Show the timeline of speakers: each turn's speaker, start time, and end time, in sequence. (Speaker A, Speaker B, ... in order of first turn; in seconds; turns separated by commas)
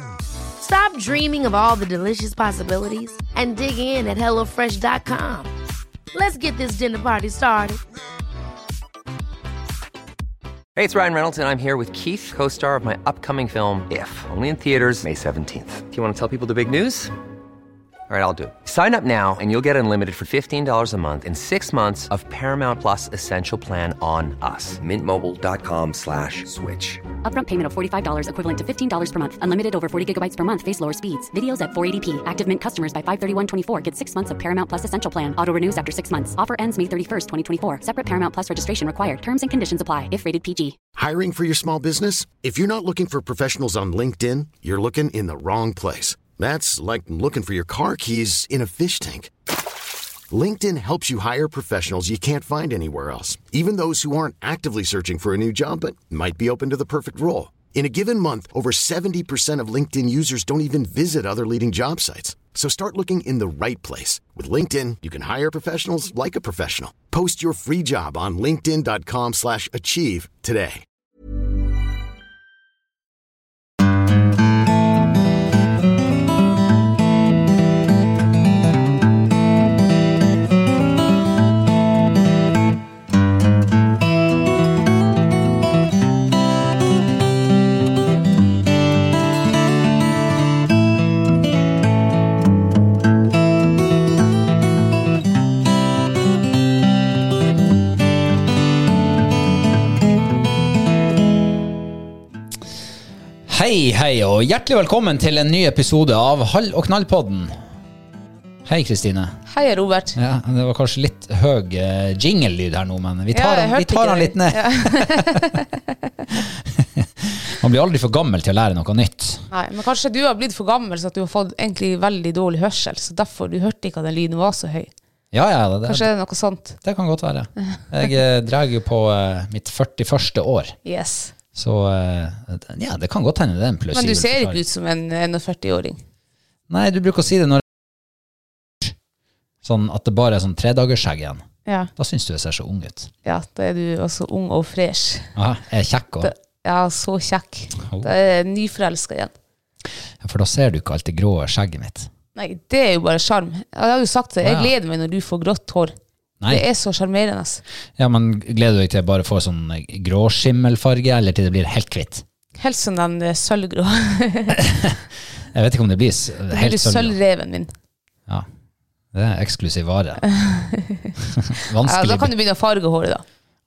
Speaker A: 0.6-5.5, Speaker A: 6.1-7.8, Speaker B: 10.8-17.1, Speaker B: 18.1-27.0, Speaker C: 27.2-40.8, Speaker D: 41.0-49.3, Speaker D: 50.3-70.8, Speaker E: 103.5-107.6, Speaker E: 108.7-109.4, Speaker F: 109.5-110.2, Speaker E: 110.2-115.4, Speaker F: 113.3-115.7, Speaker E: 116.3-119.5, Speaker F: 119.5-124.9, Speaker E: 125.3-126.1, Speaker F: 125.8-126.8, Speaker E: 126.8-130.8, Speaker F: 130.8-131.3, Speaker E: 131.6-134.6, Speaker F: 133.9-136.0, Speaker E: 136.7-137.6, Speaker E: 139.6-141.4, Speaker E: 142.0-143.1, Speaker F: 143.2-145.3, Speaker E: 145.3-146.3, Speaker F: 146.2-149.3, Speaker E: 147.8-148.1, Speaker E: 150.2-152.1, Speaker F: 152.4-155.9, Speaker E: 154.4-154.7, Speaker F: 156.5-157.6, Speaker E: 158.0-162.2, Speaker F: 162.6-164.6, Speaker E: 164.6-165.0, Speaker E: 165.5-167.2, Speaker F: 166.5-167.7, Speaker E: 169.1-170.2, Speaker F: 170.3-171.1, Speaker E: 171.4-172.3, Speaker F: 171.8-173.2